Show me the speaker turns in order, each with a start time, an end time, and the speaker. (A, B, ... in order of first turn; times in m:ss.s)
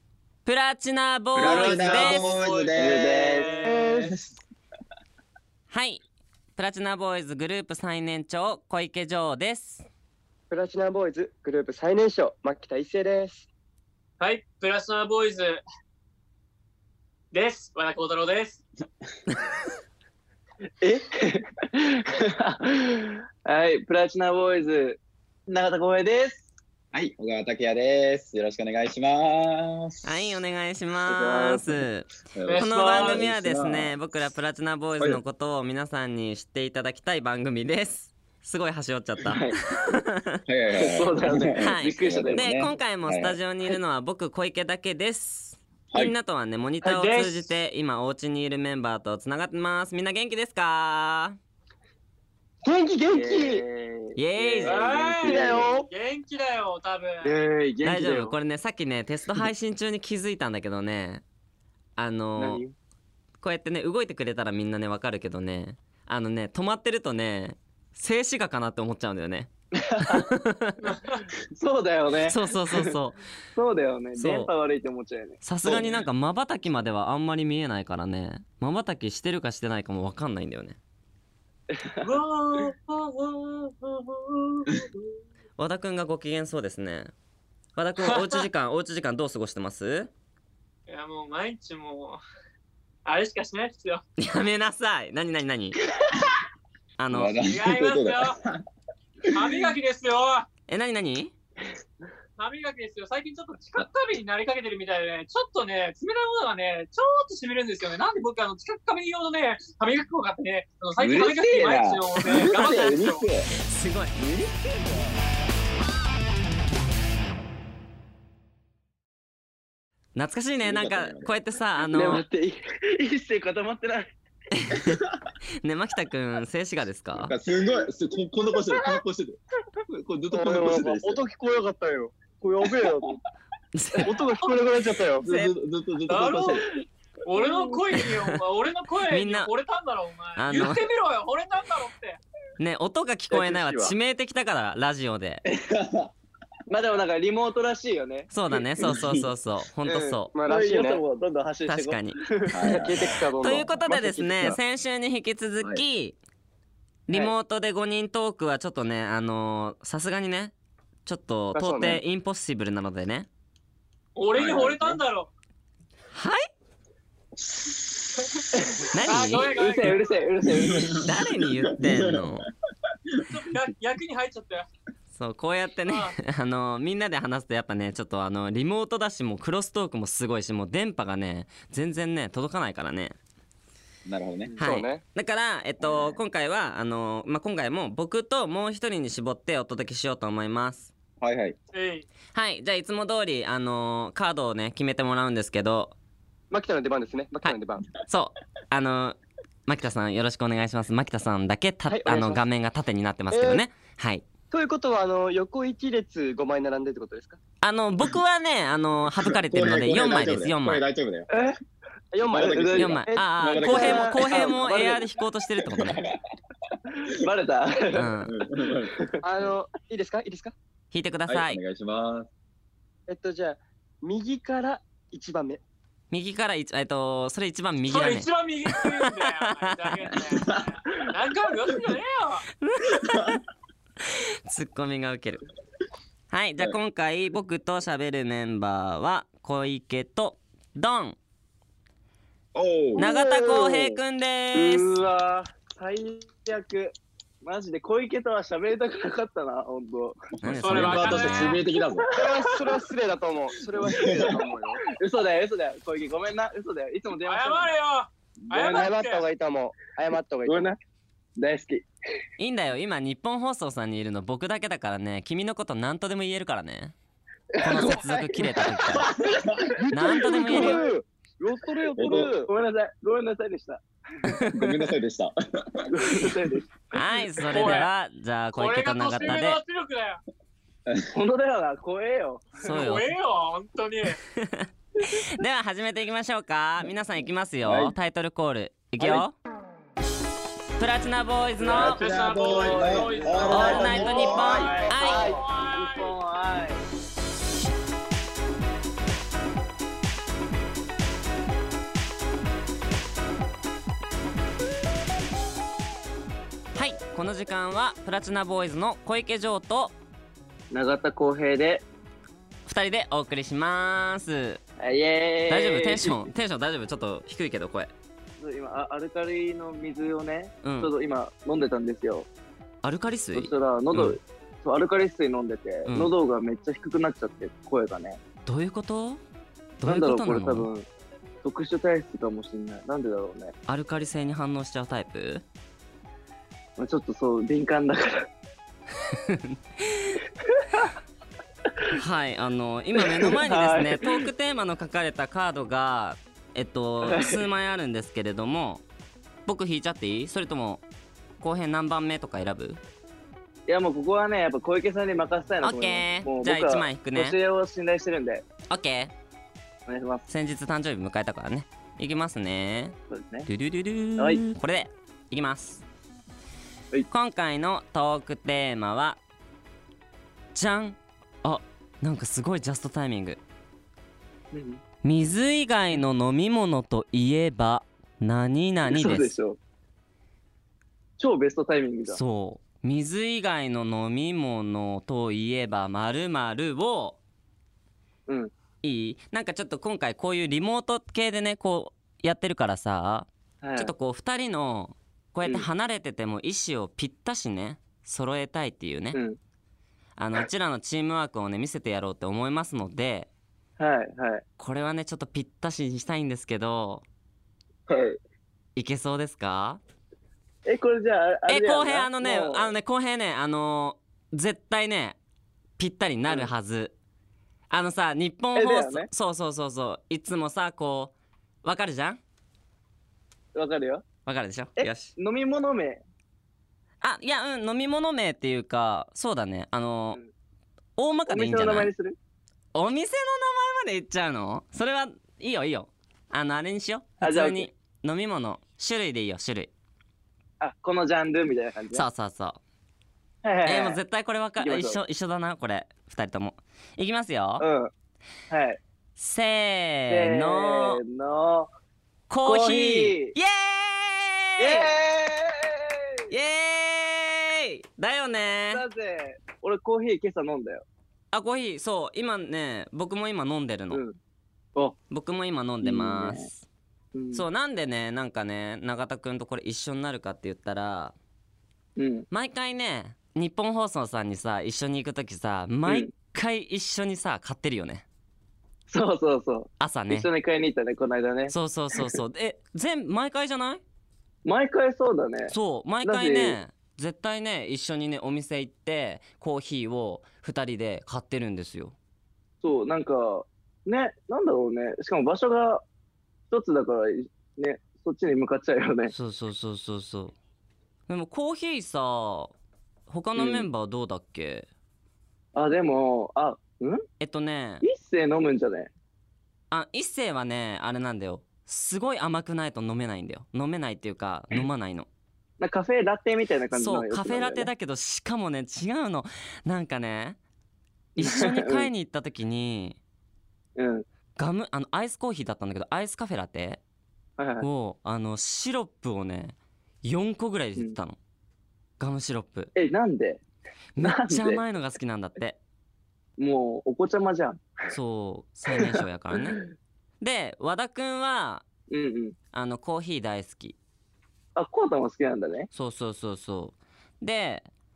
0:00.4-0:02.2 A
0:01.3-0:04.3 B
0:01.4-0:03.7 C
0:02.7-0:03.6 D
0:03.0-0:04.1 E
0:05.7-0:06.0 A
0:06.6-0:09.8 A
0:10.5-0:13.5 E
0:14.2-0:15.6 C
0:17.3-0:18.6 C
0:20.8-0:26.4 D
0:26.9-0:30.4 B
0:30.0-0:40.3 A
0:31.1-0:31.7 D
0:32.3-0:33.9 B
0:32.4-0:33.2 C
0:39.2-0:39.6 D
0:40.4-0:43.4 B
0:40.7-0:42.6 D
0:41.6-0:51.4 A
0:46.8-0:47.5 C
0:52.6-0:53.6 E
0:53.1-0:55.8 D
0:54.2-0:54.8 A
0:54.6-0:57.4 C
0:55.2-0:55.9 E
0:57.2-0:58.3 D
0:57.8-1:01.2 A
1:02.0-1:02.6 A
1:02.4-1:02.7 D
1:03.4-1:10.9 A
1:09.8-1:10.3 D
1:10.8-1:11.2 C
1:11.5-1:13.0 D
1:12.2-1:13.2 A
1:13.5-1:15.4 D
1:14.1-1:14.5 A
1:15.4-1:20.8 A
1:15.6-1:16.0 B
1:21.7-1:22.1 D
1:22.0-1:24.9 C
1:25.6-1:27.1 A
1:27.8-1:30.1 A
1:28.0-1:28.4 C
1:30.9-1:32.2 C
1:33.0-1:34.0 C
1:34.2-1:35.8 A
1:37.0-1:37.4 A
1:37.1-1:38.6 B
1:37.4-1:38.4 C
1:39.3-1:40.5 C
1:40.7-1:41.3 A
1:42.4-1:53.3 C
1:51.0-1:53.5 B
1:53.6-1:54.2 A
1:54.1-1:55.2 B
2:00.1-2:02.2 A
2:00.6-2:01.3 B
2:01.9-2:04.1 D
2:04.5-2:05.0 A
2:05.6-2:07.3 A
2:07.2-2:11.2 B
2:10.3-2:13.2 E
2:13.7-2:14.2 A
2:14.0-2:15.3 E
2:15.2-2:16.6 B
2:15.2-2:15.5 A
2:16.1-2:16.7 C
2:17.2-2:22.2 C
2:17.4-2:17.8 D
2:18.0-2:18.2 A
2:19.1-2:19.5 A
2:20.4-2:20.9 A
2:22.6-2:25.4 A
2:23.3-2:23.8 E
2:23.3-2:23.9 B
2:25.4-2:26.1 B
2:26.7-2:28.3 D
2:28.3-2:30.3 A
2:28.8-2:29.3 B
2:29.9-2:32.6 D
2:30.3-2:31.0 E
2:31.7-2:36.2 A
2:32.5-2:33.1 B
2:32.6-2:34.6 E
2:37.1-2:40.5 A
2:37.1-2:37.3 D
2:41.0-2:43.3 A
2:41.5-2:42.0 E
2:44.2-2:45.3 C
2:44.3-2:45.0 B
2:46.1-2:46.5 A
2:47.4-2:48.3 B
2:48.5-2:48.8 D
2:48.9-2:49.5 A
2:48.9-2:50.3 C
2:49.4-2:51.0 D
2:50.4-2:52.4 B
2:51.0-2:52.4 A
2:53.3-2:54.7 C
2:55.1-3:03.2 A
2:55.8-2:56.1 C
3:04.0-3:04.6 B
3:04.6-3:05.0 E
3:04.6-3:10.9 A
3:05.8-3:06.2 B
3:11.2-3:11.6 B
3:11.7-3:12.0 C
3:12.3-3:16.0 A
3:16.5-3:17.9 E
3:17.4-3:24.2 A
3:21.9-3:22.4 E
3:23.3-3:23.6 E
3:24.5-3:27.4 E
3:27.6-3:30.8 A
3:29.2-3:31.4 B
3:31.3-3:31.6 D
3:32.1-3:35.1 E
3:32.3-3:34.6 B
3:32.3-3:33.0 D
3:32.8-3:36.0 A
3:35.6-3:36.1 B
3:37.0-3:38.2 D
3:37.9-3:38.3 A
3:38.2-3:39.0 B
3:39.2-3:40.5 E
3:40.9-3:41.6 A
3:41.3-3:42.3 B
3:43.1-3:45.6 E
3:46.1-3:50.0 A
3:47.8-3:52.5 C
3:52.6-3:53.4 A
3:54.5-3:55.4 A
3:56.3-4:01.2 A
4:02.5-4:03.1 B
4:03.0-4:05.0 A
4:03.0-4:04.0 E
4:04.5-4:10.2 D
4:10.4-4:12.1 B
4:10.4-4:11.6 A
4:10.6-4:11.6 C
4:11.9-4:12.8 D
4:12.1-4:14.8 E
4:13.8-4:14.3 B
4:14.8-4:17.8 D
4:17.2-4:19.3 C
4:18.5-4:20.7 E
4:18.6-4:18.9 D
4:20.4-4:20.8 D
4:21.4-4:21.9 D
4:22.4-4:26.9 A
4:27.5-4:28.8 D
4:27.6-4:29.1 A
4:28.9-4:30.2 B
4:29.0-4:32.5 E
4:29.9-4:30.8 A
4:30.5-4:30.8 D
4:32.0-4:32.3 B
4:32.0-4:34.4 D
4:34.2-4:34.7 A
4:34.5-4:36.4 B
4:35.9-4:37.0 D
4:36.9-4:39.6 A
4:37.4-4:37.9 C
4:38.5-4:40.2 C
4:41.1-4:42.6 D
4:42.6-4:43.1 A
4:42.6-4:44.2 C
4:44.3-4:49.4 A
4:47.6-4:47.9 B
4:49.0-4:49.2 D
4:50.8-4:52.0 A
4:51.6-4:56.8 D
4:51.6-4:54.7 B
4:51.9-4:56.2 C
4:53.5-4:55.3 A
4:54.4-4:55.4 E
5:06.7-5:09.9 A
5:10.7-5:11.8 D
5:12.6-5:14.6 A
5:14.8-5:16.3 D
5:15.5-5:17.9 A
5:18.4-5:22.3 D
5:20.6-5:20.9 A
5:22.8-5:24.2 A
5:23.3-5:28.2 D
5:25.8-5:26.1 A
5:28.4-5:29.2 A
5:29.8-5:30.7 A
5:29.8-5:30.9 D
5:31.4-5:33.5 D
5:33.7-5:35.4 A
5:36.8-5:38.3 D
5:39.1-5:40.2 A
5:40.4-5:40.9 D
5:41.9-5:48.8 A
5:43.0-5:44.3 D
5:47.0-5:47.4 D
5:49.4-5:50.8 A
5:51.4-5:52.8 A
5:53.7-5:58.4 D
5:55.6-5:57.4 A
5:58.7-5:59.1 A
5:59.9-6:00.2 D
6:00.3-6:02.9 A
6:03.1-6:03.5 D
6:03.5-6:05.8 A
6:04.2-6:04.4 D
6:07.1-6:09.2 A
6:10.5-6:13.4 A
6:14.5-6:14.8 D
6:15.0-6:19.3 A
6:18.8-6:19.6 D
6:21.2-6:22.2 D
6:22.1-6:27.2 A
6:28.3-6:28.5 D
6:28.8-6:39.2 A
6:33.6-6:33.9 D
6:35.4-6:35.7 D
6:39.1-6:39.4 D
6:40.2-6:43.3 A
6:43.8-6:44.4 D
6:44.6-6:47.0 A
6:47.9-6:48.2 D
6:48.8-6:49.8 A
6:50.6-6:52.7 D
6:51.5-6:55.2 A
6:55.8-6:56.9 A
6:57.7-7:02.2 A
6:58.5-6:59.1 D
7:03.5-7:04.0 D
7:04.2-7:05.1 A
7:04.8-7:06.0 D
7:07.0-7:10.2 A
7:11.0-7:11.9 A
7:11.3-7:12.2 D
7:12.7-7:19.7 A
7:17.2-7:17.7 D
7:20.6-7:22.1 D
7:21.9-7:22.6 A
7:23.4-7:24.0 D
7:23.6-7:27.6 A
7:24.6-7:25.0 D
7:27.6-7:27.9 D
7:28.5-7:28.8 D
7:29.2-7:31.0 A
7:30.1-7:31.7 D
7:32.3-7:34.9 A
7:32.4-7:33.4 D
7:34.6-7:36.4 D
7:36.3-7:38.8 A
7:38.7-7:40.8 D
7:41.3-7:44.0 A
7:43.9-7:44.2 D
7:45.1-7:46.6 A
7:45.8-7:46.5 D
7:47.1-7:47.5 D
7:47.3-7:51.1 A
7:52.0-7:52.3 D
7:52.3-7:58.0 A
7:55.8-7:56.1 D
7:58.9-8:02.1 D
7:59.8-8:00.3 A
8:01.5-8:03.8 A
8:04.4-8:06.6 D
8:05.5-8:11.9 A
8:12.6-8:15.8 D
8:16.5-8:19.1 D
8:19.1-8:20.3 A
8:21.1-8:22.5 A
8:23.1-8:24.7 A
8:23.3-8:23.7 D
8:25.5-8:27.0 D
8:27.2-8:27.8 A
8:27.8-8:28.9 D
8:29.7-8:35.1 A
8:35.6-8:37.7 D
8:36.7-8:40.4 A
8:41.2-8:43.0 A
8:41.2-8:41.9 D
8:43.8-8:44.0 D
8:44.4-8:46.8 A
8:47.4-8:47.7 D
8:47.6-8:51.2 A
8:52.0-8:52.7 A
8:52.7-8:53.4 D
8:53.9-8:55.6 A
8:54.0-8:54.6 D
8:56.4-8:57.6 D
8:57.9-8:59.6 A
8:58.7-8:59.7 D
9:00.2-9:01.6 A
9:01.9-9:02.4 D
9:02.5-9:03.8 A
9:04.6-9:05.7 D
9:05.7-9:07.7 A